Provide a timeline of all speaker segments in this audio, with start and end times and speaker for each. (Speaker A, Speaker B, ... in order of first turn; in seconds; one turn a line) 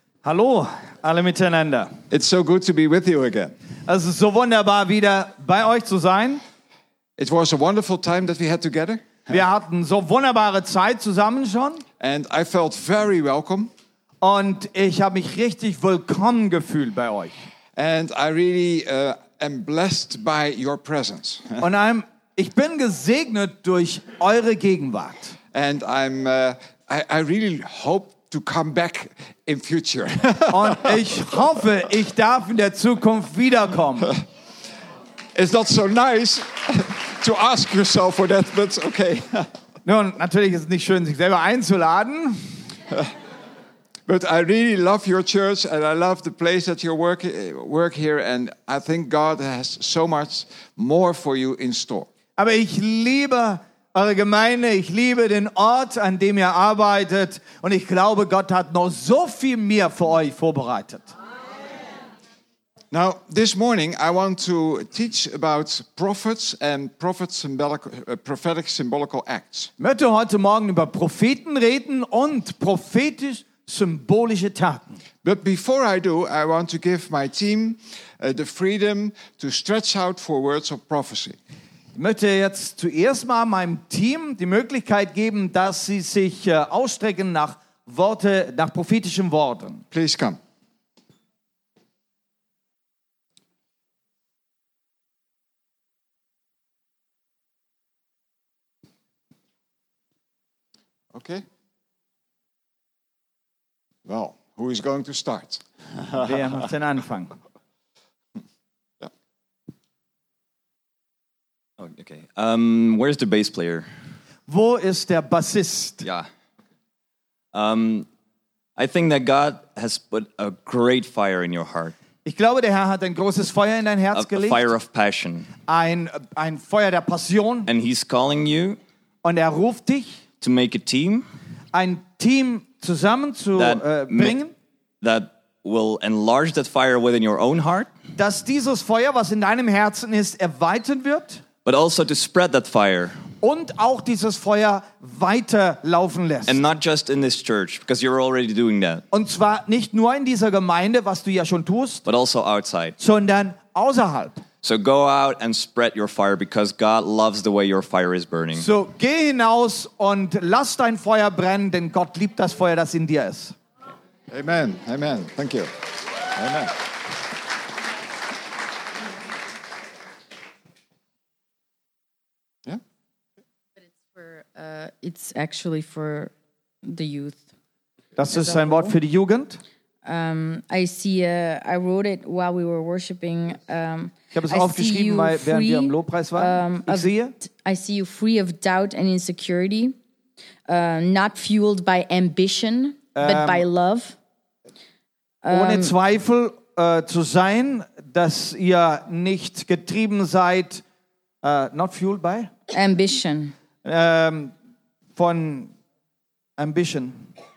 Speaker A: 0.2-2.0
Speaker B: 2.1-3.5
Speaker A: 3.9-6.4
Speaker B: 7.2-9.3
Speaker A: 9.3-11.8
Speaker B: 12.0-13.7
Speaker A: 14.2-17.3
Speaker B: 17.8-21.6
Speaker A: 21.6-25.4
Speaker B: 25.5-31.0
Speaker A: 30.5-34.1
Speaker B: 35.4-39.5
Speaker A: 39.9-42.6
Speaker B: 44.1-52.1
Speaker A: 52.4-61.1
Speaker B: 62.9-69.7
Speaker A: 69.8-74.9
Speaker B: 75.2-81.4
Speaker A: 81.9-89.9
Speaker B: 89.9-90.4
Speaker B: 101.1-101.5
Speaker B: 104.0-106.3
Speaker A: 106.2-107.4
Speaker C: 111.8-113.9
Speaker A: 114.5-116.1
Speaker C: 117.5-118.1
Speaker C: 118.8-122.0
Speaker A: 122.2-124.7
Speaker C: 124.2-125.5
Speaker A: 125.7-127.7
Speaker C: 127.7-128.8
Speaker A: 129.2-130.2
Speaker C: 130.4-131.3
Speaker A: 131.7-134.5
Speaker C: 133.6-134.3
Speaker C: 135.0-137.9
Speaker A: 138.2-141.4
Speaker C: 141.7-143.2
Speaker A: 143.4-146.6
Speaker C: 146.5-149.0
Speaker A: 149.1-152.0
Speaker C: 152.1-153.0
Speaker A: 153.0-154.4
Speaker C: 154.6-158.7
Speaker A: 158.6-163.6
Speaker B: 164.3-165.7
Speaker B: 166.3-166.8
Speaker D: 173.8-176.3
Speaker D: 176.8-177.4
Speaker A: 178.2-179.6
Speaker D: 178.3-179.0
Speaker D: 180.0-190.0
Speaker A: 184.3-187.3
Speaker D: 190.7-194.2
Speaker A: 193.2-193.7
Speaker D: 195.4-195.9
Speaker A: 195.5-200.8
Speaker A: 201.4-202.5
Speaker D: 202.7-203.6
Speaker A: 203.8-204.5
Speaker A: 205.2-205.7
Speaker A: 206.6-207.3